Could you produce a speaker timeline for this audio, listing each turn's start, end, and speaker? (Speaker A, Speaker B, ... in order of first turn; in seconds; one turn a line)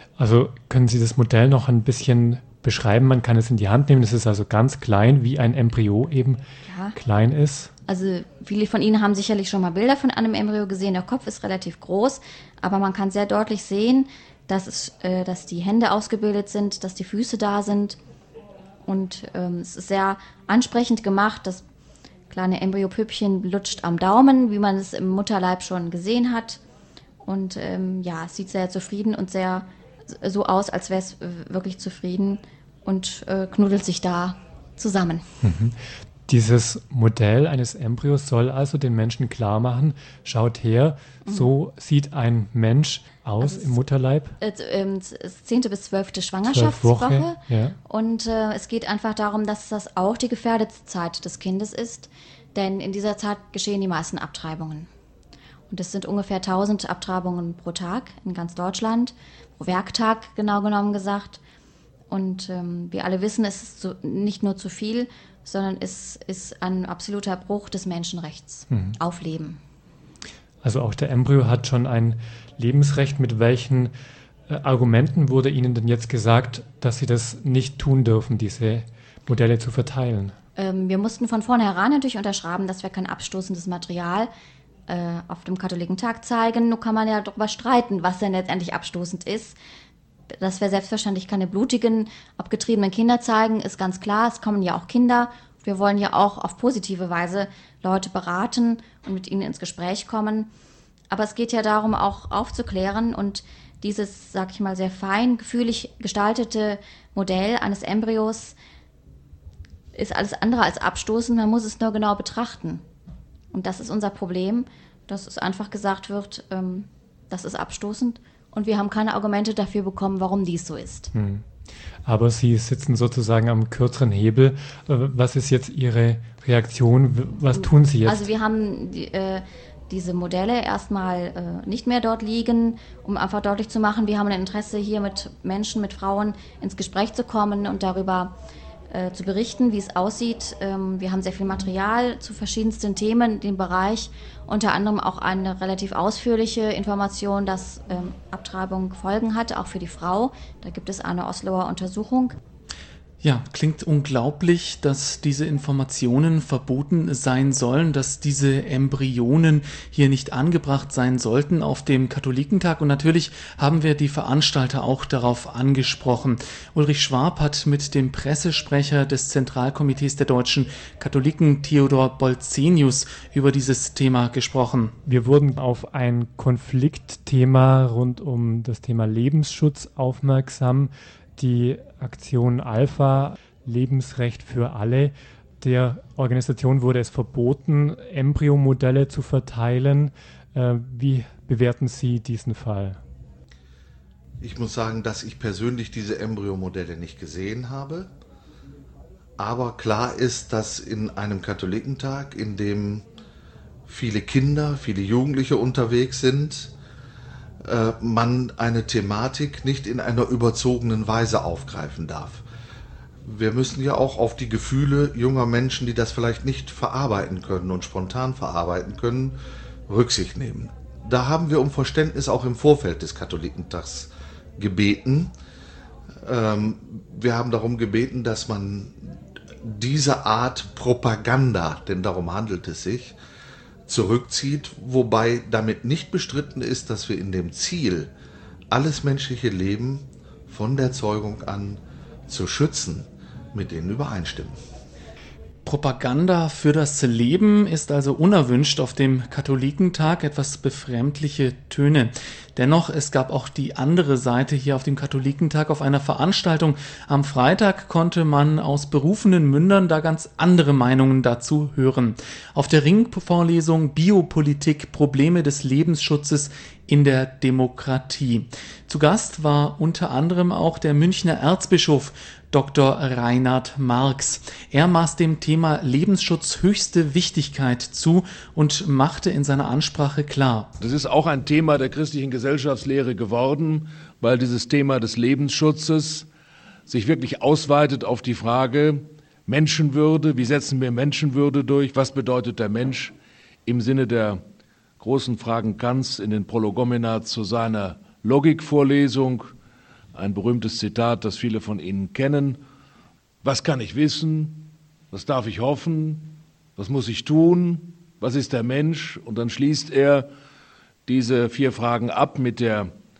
Speaker A: 0.2-6.4
Speaker B: 6.6-7.0
Speaker A: 6.9-7.7
Speaker B: 7.9-18.0
Speaker B: 18.9-21.6
Speaker B: 22.3-26.6
Speaker B: 27.2-35.2
Speaker A: 35.4-44.3
Speaker B: 41.2-41.5
Speaker B: 43.4-43.8
Speaker B: 44.4-54.9
Speaker A: 46.5-47.8
Speaker B: 55.7-61.4
Speaker B: 62.1-69.6
Speaker A: 68.7-69.0
Speaker A: 70.6-73.9
Speaker A: 74.5-80.3
Speaker B: 80.5-84.3
Speaker B: 84.9-89.6
Speaker B: 90.4-100.5
Speaker B: 101.1-108.5
Speaker B: 109.9-112.8
Speaker B: 113.5-121.1
Speaker A: 121.1-121.4
Speaker A: 122.0-128.3
Speaker B: 127.5-138.3
Speaker B: 138.9-152.3
Speaker C: 153.2-174.9
Speaker A: 175.1-193.0
Speaker D: 194.4-198.1
Speaker D: 199.4-203.1
Speaker D: 203.9-206.7
Speaker D: 207.6-212.4
Speaker D: 213.2-225.3
Speaker D: 226.2-233.2
Speaker D: 233.9-238.1
Speaker D: 238.7-244.6
Speaker C: 245.6-280.7
Speaker E: 280.8-286.3
Speaker E: 286.9-293.1
Speaker E: 293.6-294.4
Speaker E: 295.0-299.5
Speaker E: 300.1-302.6
Speaker E: 303.4-310.3
Speaker E: 311.1-312.9